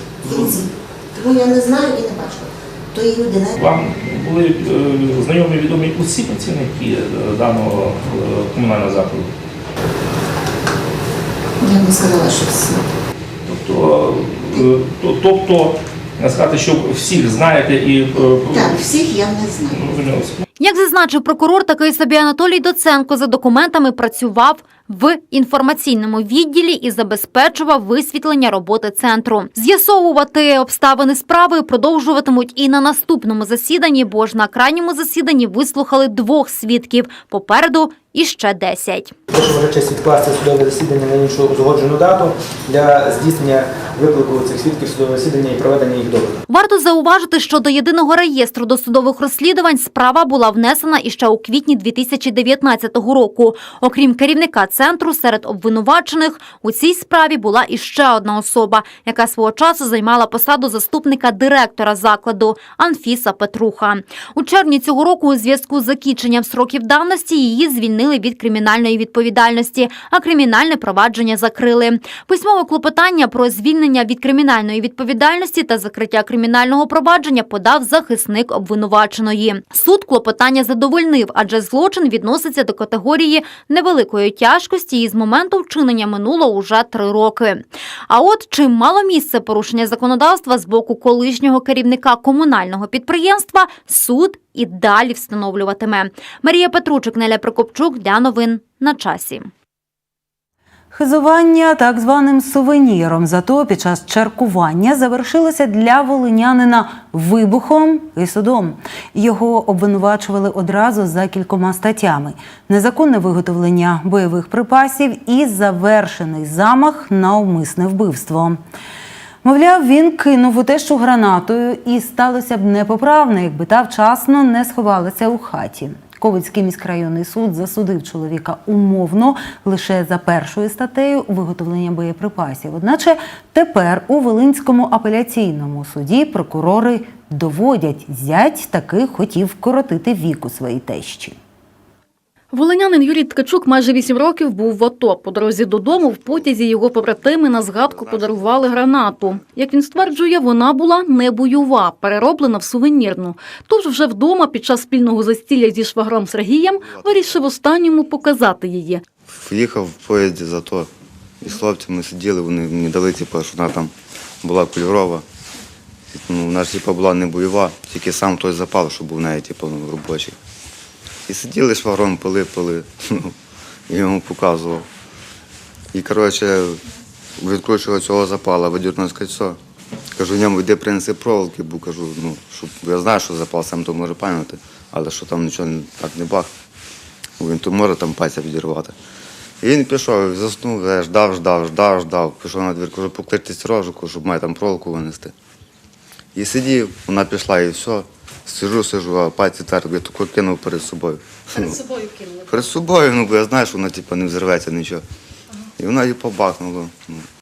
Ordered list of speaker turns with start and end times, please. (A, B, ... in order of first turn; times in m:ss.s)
0:00.2-0:03.6 A
0:03.6-0:09.3 B
0:11.6-0:12.8 A
0:13.5-0:18.8 B
0:18.4-0:19.8 A
0:19.7-0:20.4 B
0:20.6-0:39.1 C
0:39.3-0:46.4 D
0:46.5-1:39.5 C
1:40.9-1:58.6 E
1:59.4-2:21.4 E
2:22.5-2:39.0 F
2:25.9-2:26.5 G
2:27.6-2:29.4 G
2:36.9-2:37.4 G
2:39.3-2:40.9 G
2:41.4-2:45.2 G
2:46.1-2:50.4 G
2:51.3-2:53.4 G
2:53.9-2:54.9 G
2:55.9-2:56.8 G
2:57.4-2:59.6 G
3:00.2-3:06.5 G
3:07.4-3:08.9 G
3:09.6-3:15.3 G
3:16.4-3:21.9 G
3:22.4-3:25.0 G
3:25.8-3:27.3 G